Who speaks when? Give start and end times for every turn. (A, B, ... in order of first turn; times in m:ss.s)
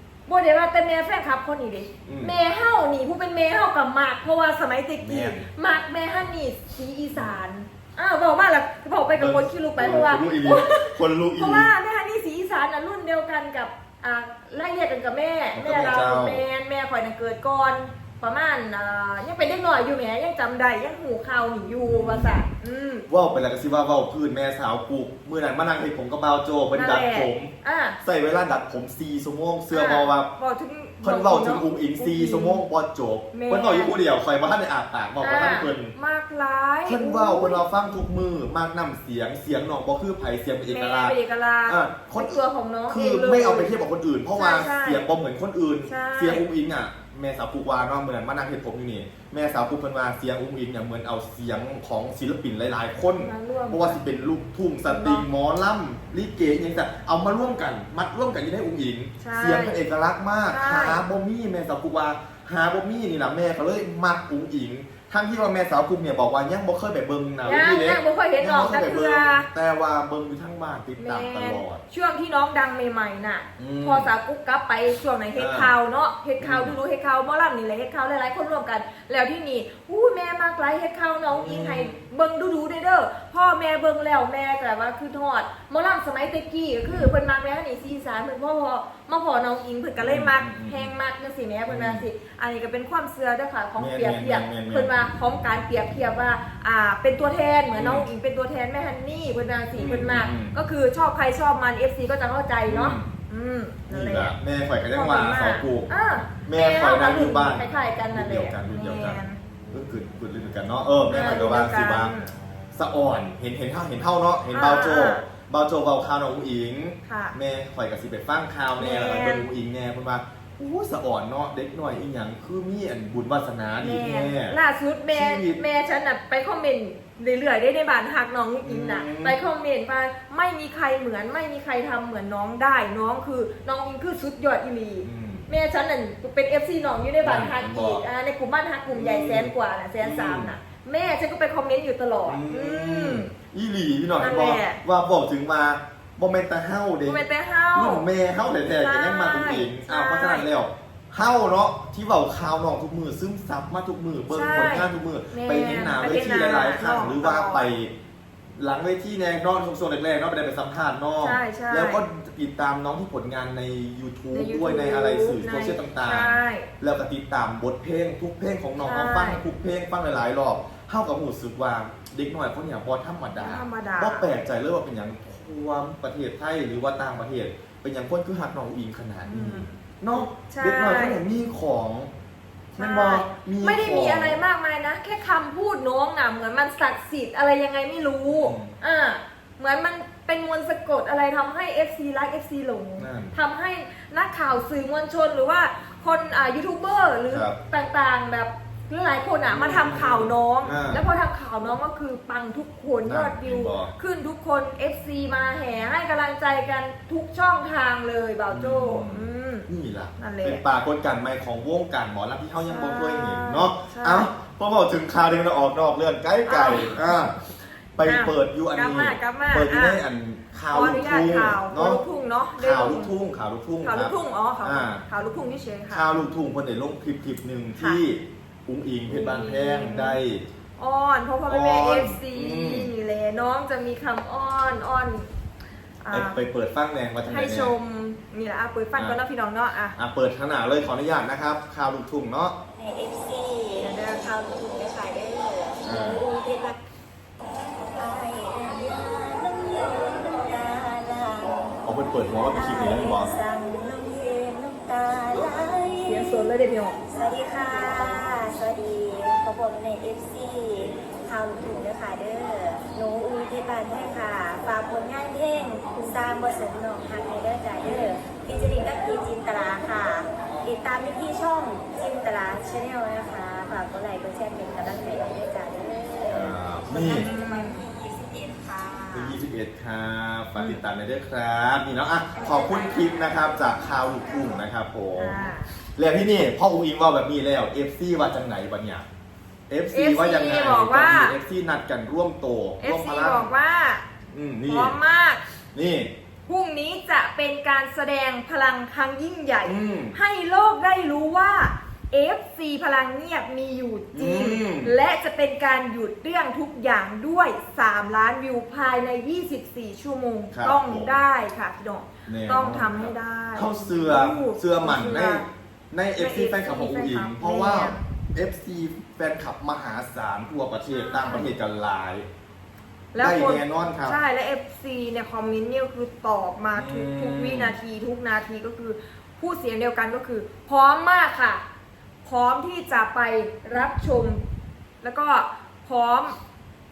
0:00.2-0:23.0 A
0:02.0-0:02.4 B
0:05.0-0:05.5 B
0:07.1-0:07.4 B
0:09.2-0:11.7 B
0:15.5-0:16.4 B
0:21.9-0:22.4 B
0:23.1-0:30.3 B
0:26.7-0:28.0 A
0:29.7-0:32.6 A
0:31.0-0:35.9 B
0:33.3-0:34.0 A
0:35.2-0:37.6 A
0:36.8-1:11.8 B
0:40.7-0:43.7 A
0:44.3-0:45.0 A
0:45.8-0:46.4 A
0:53.2-0:54.0 A
0:54.8-0:55.2 A
0:59.2-0:59.8 A
1:00.4-1:01.0 A
1:07.4-1:09.5 A
1:11.0-1:44.4 A
1:13.6-1:14.1 B
1:15.4-1:15.7 B
1:16.4-1:16.8 B
1:21.3-1:22.0 B
1:26.8-1:27.1 B
1:30.0-1:30.9 B
1:31.7-1:32.1 B
1:33.8-1:34.9 B
1:37.7-1:38.1 B
1:39.8-1:40.6 B
1:42.7-1:43.1 B
1:43.9-1:45.9 B
1:44.9-1:49.4 A
1:46.4-1:52.1 B
1:51.1-1:52.3 A
1:52.7-2:04.6 B
1:54.5-1:55.2 A
1:57.0-1:57.4 A
1:58.8-1:59.5 A
2:03.8-2:23.3 A
2:05.1-2:05.6 B
2:08.6-2:09.4 B
2:15.0-2:15.5 B
2:17.2-2:18.0 B
2:18.9-2:20.5 B
2:22.2-2:37.9 B
2:24.2-2:24.8 A
2:27.0-2:28.1 A
2:28.6-2:30.5 A
2:34.3-2:37.7 A
2:38.6-3:02.1 B
2:41.2-2:42.0 A
2:44.3-2:46.7 A
2:48.8-2:49.4 A
2:53.4-2:54.3 A
2:59.2-3:01.2 A
3:02.7-3:04.4 B
3:02.8-3:30.6 A
3:08.2-3:08.7 B
3:13.0-3:13.4 B
3:17.3-3:17.6 B
3:19.5-3:21.0 B
3:23.0-3:23.9 B
3:28.5-3:37.4 B
3:32.6-3:34.3 A
3:36.4-3:37.0 A
3:38.0-3:42.0 B
3:38.0-3:40.0 A
3:40.7-3:43.1 A
3:42.6-3:45.0 B
3:43.8-3:46.1 A
3:45.9-3:50.4 B
3:47.8-3:48.0 A
3:49.1-3:50.2 A
3:50.8-3:55.3 A
3:51.4-3:52.9 B
3:56.0-3:56.4 A
3:56.1-3:57.7 B
3:57.2-4:00.0 A
4:00.0-4:02.5 B
4:02.7-4:06.8 C
4:03.8-4:04.3 A
4:05.8-4:06.3 B
4:07.8-4:11.8 C
4:11.8-4:13.3 B
4:12.5-4:16.4 C
4:16.0-4:17.0 A
4:17.1-4:39.4 C
4:36.3-4:37.3 B
4:37.0-4:37.8 A
4:39.1-4:49.0 B
4:40.6-4:40.8 A
4:42.3-4:43.1 C
4:45.2-4:45.7 A
4:49.7-4:53.5 B
4:49.9-4:51.4 A
4:52.8-4:54.1 A
4:54.3-4:55.0 B
4:54.6-4:55.4 A
4:55.7-4:56.1 B
4:56.5-5:15.5 A
4:59.6-5:00.2 B
5:04.1-5:04.9 B
5:10.5-5:11.2 B
5:12.3-5:22.3 B
5:16.2-5:18.0 A
5:20.9-5:21.5 A
5:23.1-5:31.6 A
5:23.2-5:24.2 B
5:26.7-5:27.8 B
5:32.2-5:34.4 A
5:35.0-5:36.4 A